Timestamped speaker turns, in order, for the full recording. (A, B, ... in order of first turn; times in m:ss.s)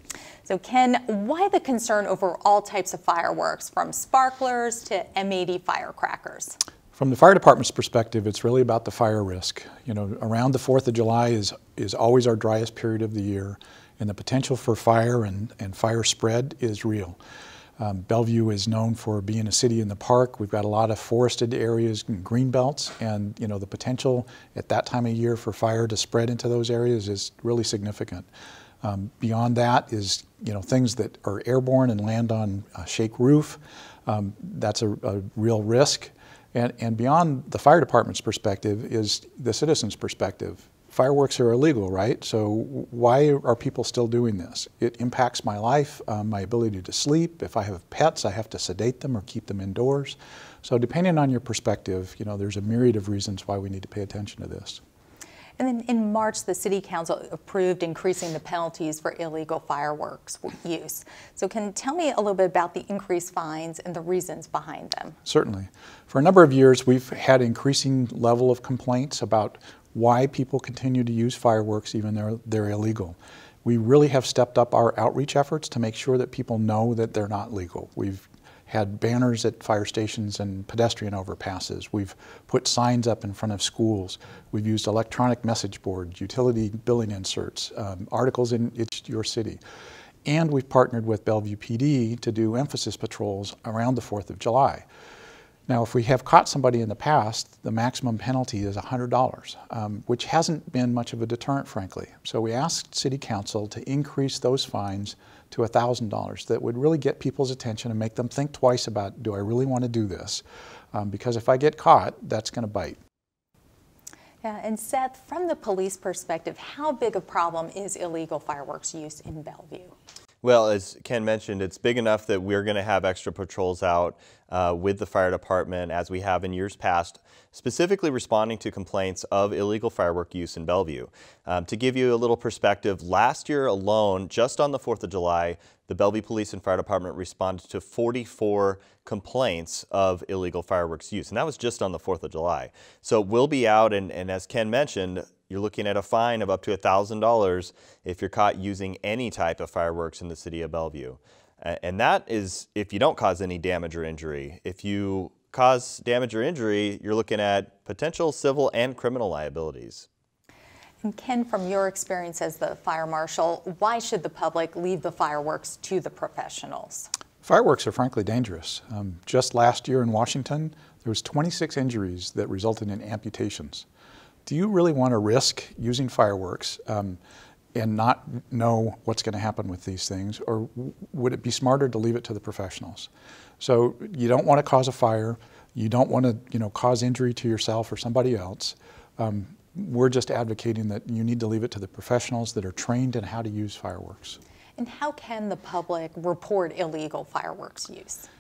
0:00.5-0:06.6 A
0:06.9-0:17.2 B
0:17.8-0:28.3 B
0:28.8-0:54.8 B
0:55.6-1:05.2 A
1:05.2-1:29.6 B
1:30.2-1:34.8 B
1:35.7-1:53.0 B
1:54.4-1:59.9 A
2:00.4-2:40.1 C
2:41.0-2:47.1 A
2:47.4-2:53.8 B
2:54.5-2:57.2 B
2:57.8-3:03.1 B
3:03.6-3:14.4 B
3:14.8-3:18.3 A